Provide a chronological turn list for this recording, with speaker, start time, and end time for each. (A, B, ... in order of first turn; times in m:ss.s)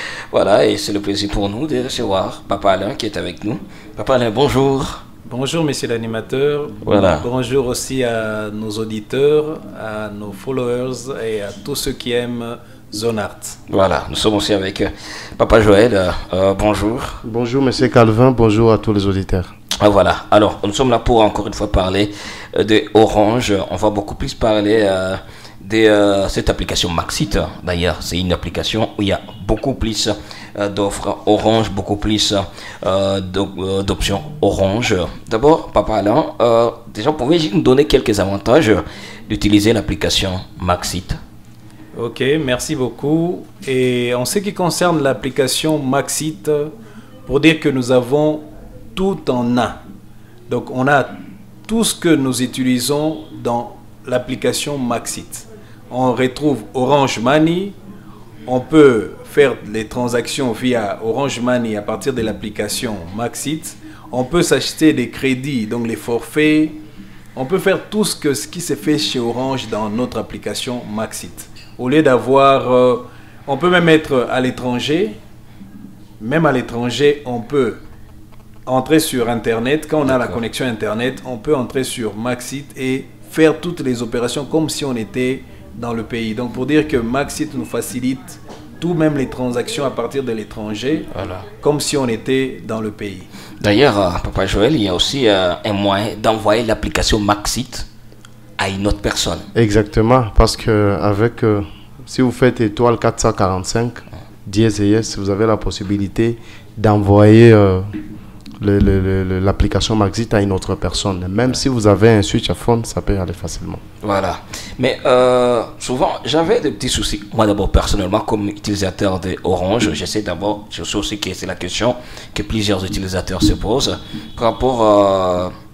0:00.3-0:05.0 A
0:05.3-0:13.6 B
0:06.8-0:07.2 A
0:13.7-0:17.2 A
0:17.2-0:19.5 C
0:19.8-0:41.2 A
0:41.9-0:46.7 B
0:47.2-0:49.8 B
0:50.5-0:57.8 B
0:58.5-1:06.8 B
1:07.3-1:15.2 B
1:16.2-1:17.8 B
1:18.6-1:31.1 B
1:20.0-1:20.4 A
1:31.1-1:31.4 A
1:31.6-1:33.3 B
1:33.6-1:37.9 A
1:38.6-1:39.4 A
1:39.5-1:47.8 C
1:48.6-1:53.8 C
1:54.0-2:05.5 A